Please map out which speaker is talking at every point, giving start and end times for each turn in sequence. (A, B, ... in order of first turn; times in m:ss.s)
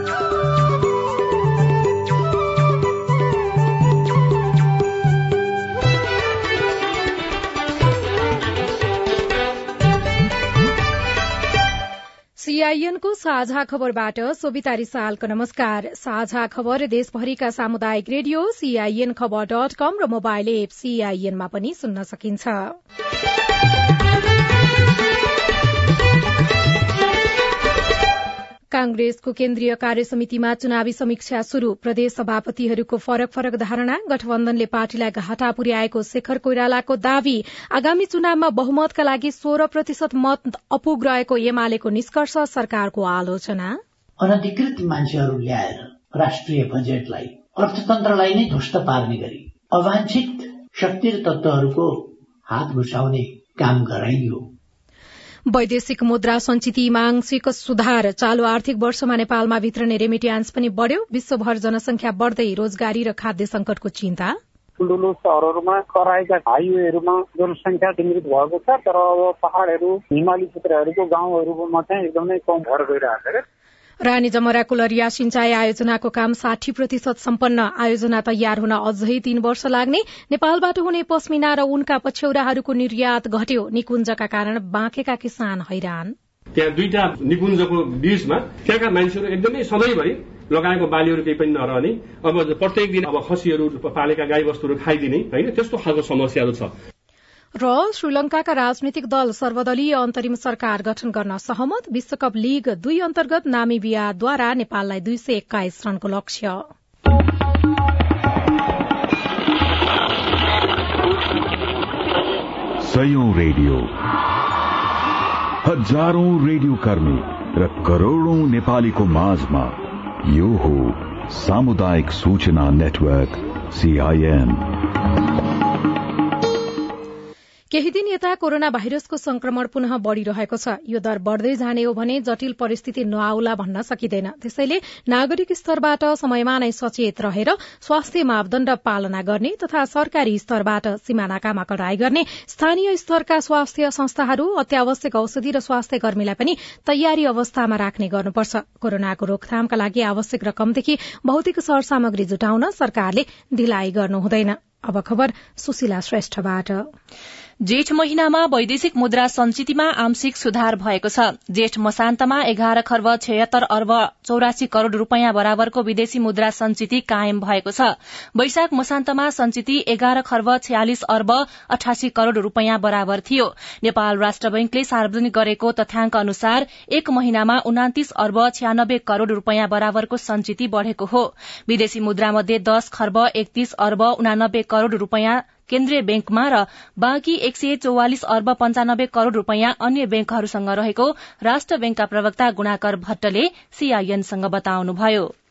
0:12.4-0:22.7 A
0:28.7-0:43.8 A
0:44.2-0:54.5 B
0:55.5-1:04.4 A
1:04.8-1:13.4 C
1:14.0-1:26.1 A
1:26.5-1:36.7 D
1:37.6-1:46.6 A
1:52.8-1:53.9 E
1:55.6-2:04.7 E
2:07.7-2:36.8 A
2:37.6-3:15.3 F